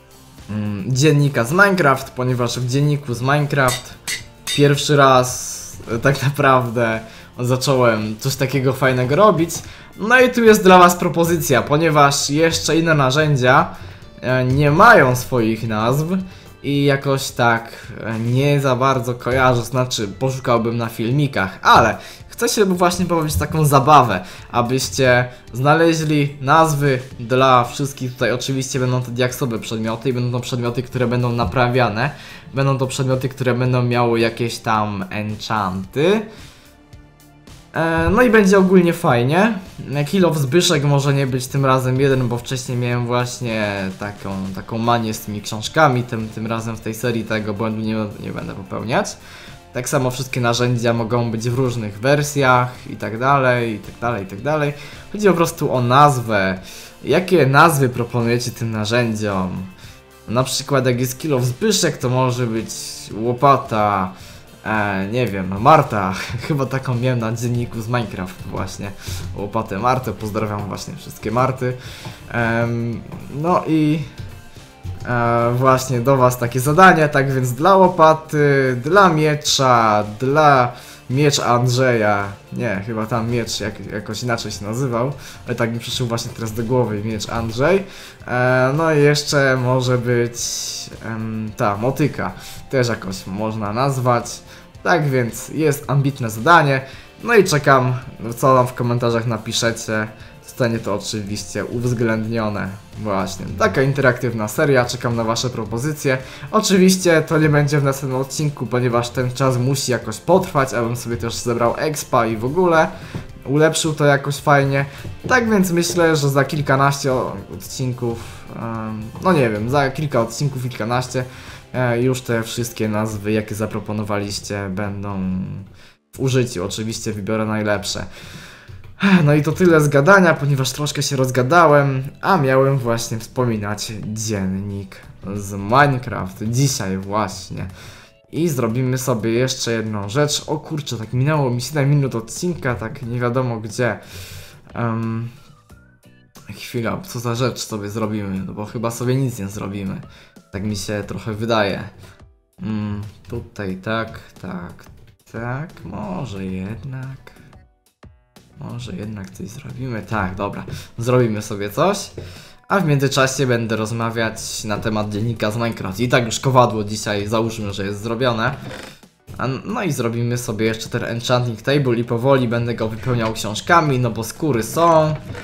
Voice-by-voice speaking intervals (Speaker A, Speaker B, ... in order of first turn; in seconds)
Speaker A: 0.5-4.0, 4.5-36.3, 37.7-49.2, 49.7-59.7, 60.2-71.8, 72.3-74.1, 75.0-112.9, 113.4-128.1, 129.0-137.7, 138.3-144.0, 144.7-145.3, 146.5-151.9, 152.6-157.3, 158.6-162.1, 162.7-168.6, 169.4-175.2